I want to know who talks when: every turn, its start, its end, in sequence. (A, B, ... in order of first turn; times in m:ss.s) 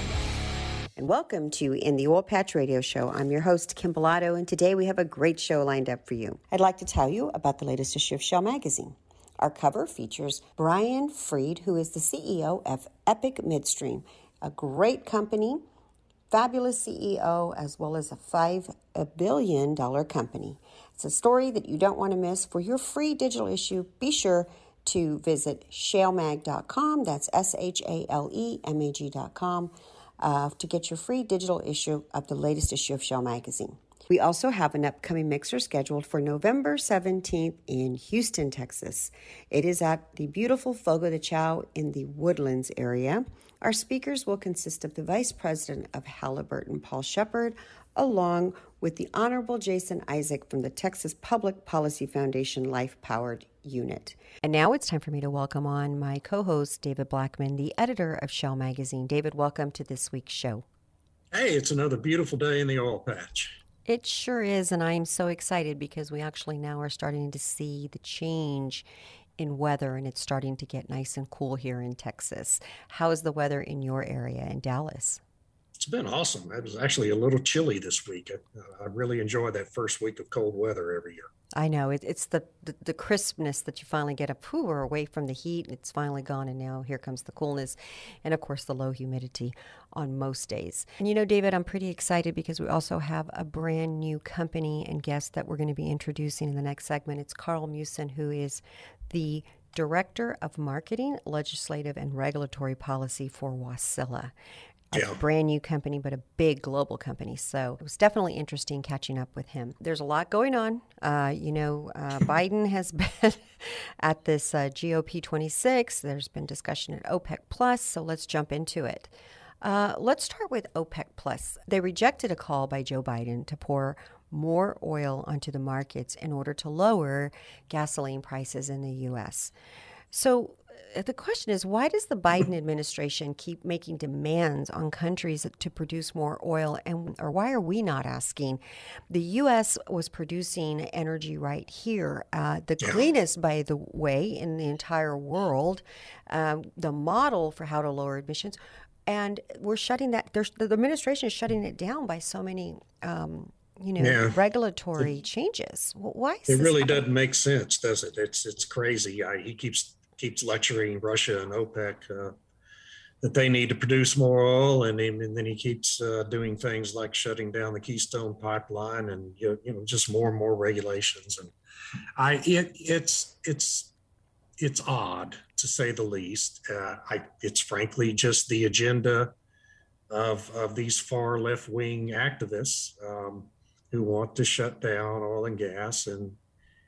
0:01.0-0:15.6 A
0:16.3-1:00.6 A
1:01.3-1:03.6 B
1:03.8-1:08.8 A
1:09.4-1:15.2 A
1:15.8-1:21.3 B
1:21.6-1:44.3 A
1:44.9-2:09.5 A
1:44.9-1:45.2 B
2:10.1-2:37.0 A
2:34.0-2:34.4 B
2:36.5-2:42.4 B
2:43.2-2:51.5 B
2:52.2-2:53.9 B
2:54.6-2:59.3 B
3:00.1-3:06.4 B